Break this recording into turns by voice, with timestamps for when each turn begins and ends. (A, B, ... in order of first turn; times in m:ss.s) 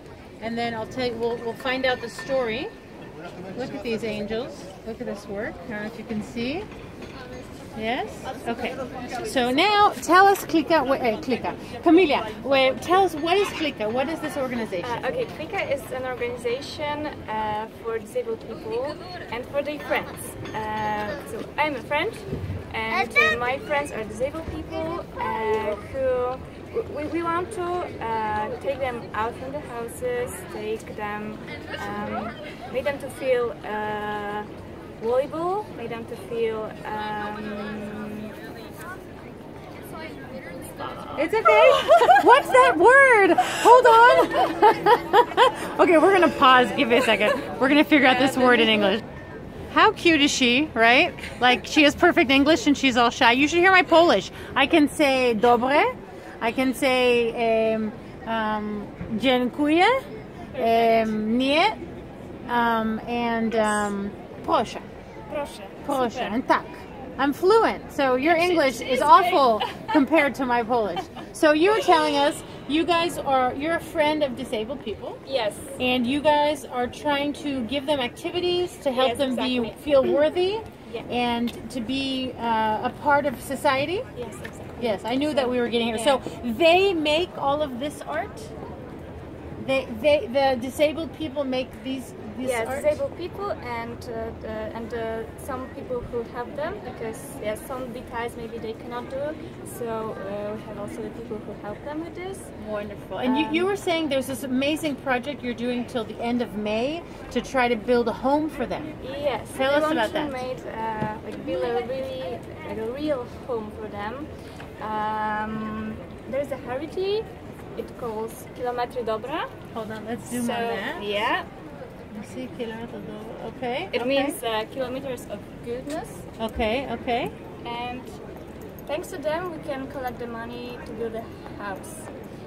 0:00.4-0:02.7 A
0:03.5-0:06.7 A
0:07.8-0:15.1 A
0:14.8-0:38.4 B
0:40.8-0:42.8 B
0:41.1-0:49.0 A
0:43.6-0:44.5 B
0:48.0-0:49.0 B
0:49.7-1:00.0 A
1:00.5-1:01.1 B
1:00.6-1:01.8 A
1:02.5-1:04.8 A
1:03.5-1:03.9 B
1:05.3-1:06.4 B
1:05.8-1:15.2 A
1:08.2-1:10.3 B
1:15.2-1:15.8 B
1:15.8-1:24.0 A
1:18.9-1:20.2 B
1:24.1-1:26.2 B
1:24.8-1:28.5 A
1:29.6-1:33.0 A
1:32.4-1:42.5 B
1:42.6-1:48.9 A
1:43.2-1:43.7 B
1:49.0-1:54.3 B
1:49.5-1:50.4 A
1:54.8-1:59.5 B
1:59.7-2:01.1 A
2:00.3-2:01.5 B
2:02.1-2:04.4 A
2:03.9-2:06.2 B
2:06.4-2:07.3 A
2:07.6-2:08.2 B
2:08.9-2:12.1 B